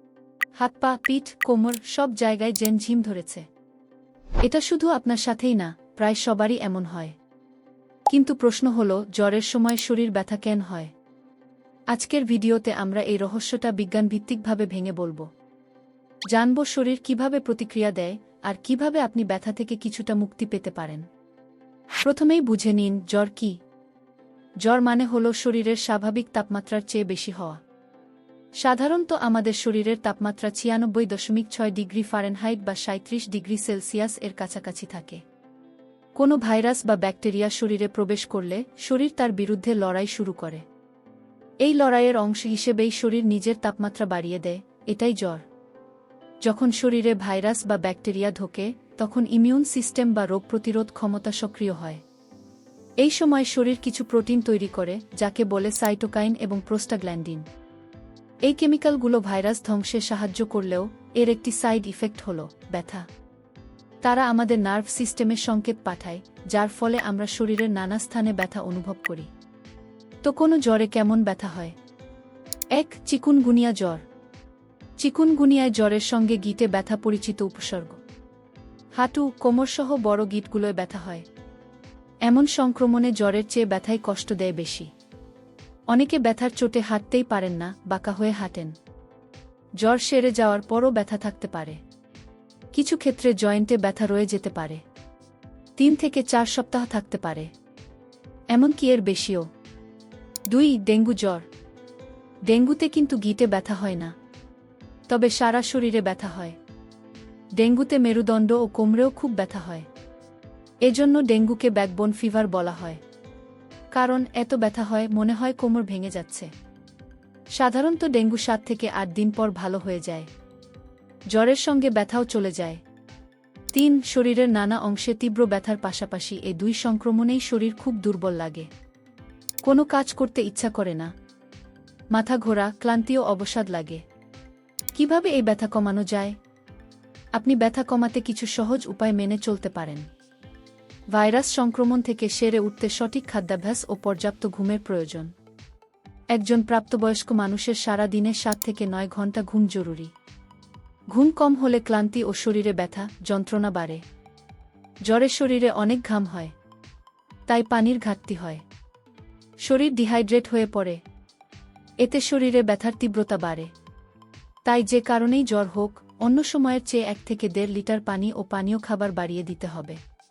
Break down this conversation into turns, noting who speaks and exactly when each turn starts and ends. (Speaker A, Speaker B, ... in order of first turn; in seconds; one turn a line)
Speaker A: 0.6-3.5
Speaker A: 4.4-7.2
Speaker A: 8.1-10.9
Speaker A: 11.9-15.3
Speaker A: 16.3-21.1
Speaker A: 22.0-23.6
Speaker A: 24.6-27.6
Speaker A: 28.6-35.2
Speaker A: 36.1-40.6
Speaker A: 41.6-45.4
Speaker A: 46.4-52.0
Speaker A: 53.0-57.5
Speaker A: 58.4-63.1
Speaker A: 64.0-69.3
Speaker A: 70.2-71.8
Speaker A: 72.7-74.0
Speaker A: 75.0-78.0
Speaker A: 78.9-81.3
Speaker A: 82.2-84.9
Speaker A: 85.9-88.7
Speaker A: 89.8-91.8
Speaker A: 92.7-94.8
Speaker A: 95.8-97.5
Speaker A: 98.5-99.5
Speaker A: 100.5-101.5
Speaker A: 102.5-104.1
Speaker A: 105.1-106.6
Speaker A: 107.6-109.9
Speaker A: 110.8-113.0
Speaker A: 113.9-116.5
Speaker A: 117.5-120.3
Speaker A: 121.3-122.8
Speaker A: 123.7-128.7
Speaker A: 129.6-131.1
Speaker A: 132.1-134.0
Speaker A: 134.9-136.4
Speaker A: 137.3-140.1
Speaker A: 141.1-145.3
Speaker A: 146.3-150.1
Speaker A: 151.1-154.0
Speaker A: 155.1-156.5
Speaker A: 157.5-158.6
Speaker A: 159.6-161.0
Speaker A: 162.0-163.7
Speaker A: 164.6-170.0